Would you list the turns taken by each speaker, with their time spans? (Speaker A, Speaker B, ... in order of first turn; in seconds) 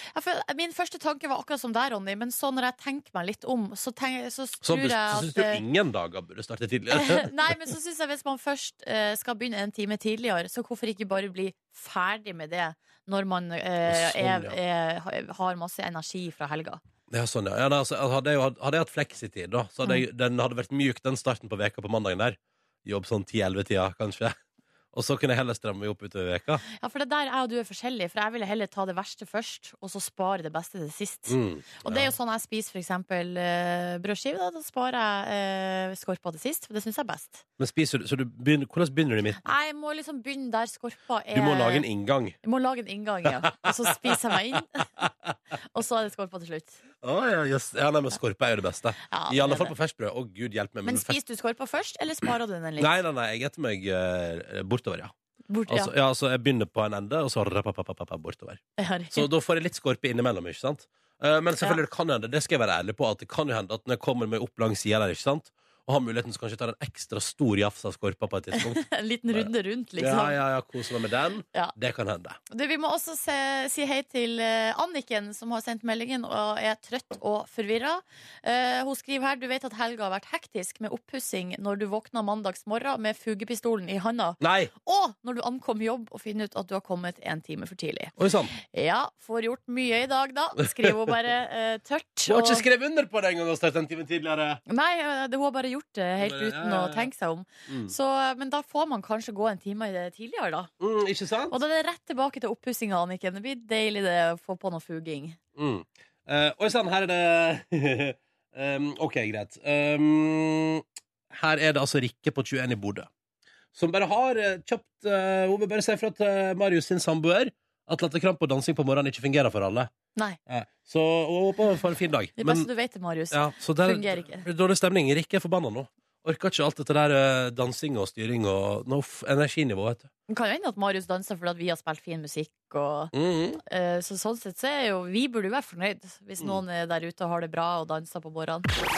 Speaker A: 0.1-5.6, 6.9-16.8, 26.7-37.4, 39.4-41.9, 42.4-44.9, 45.7-46.8, 49.1-49.7, 50.9-53.0, 55.5-55.9, 58.8-59.3, 68.5-70.4, 72.5-92.7, 94.7-100.7, 101.5-105.4, 122.4-124.5, 130.3-133.1, 133.6-138.7
Speaker B: 4.6-7.5, 13.8-14.6, 17.1-24.4, 24.9-26.6, 31.3-32.1, 37.6-39.4, 41.3-42.4, 43.3-44.1, 47.0-51.2, 52.8-55.1, 55.7-72.4, 84.4-84.7, 88.2-88.5, 92.3-94.6, 96.2-97.1, 100.8-101.6, 105.6-113.1, 113.8-119.9, 120.5-122.7, 123.3-130.1, 133.1-133.6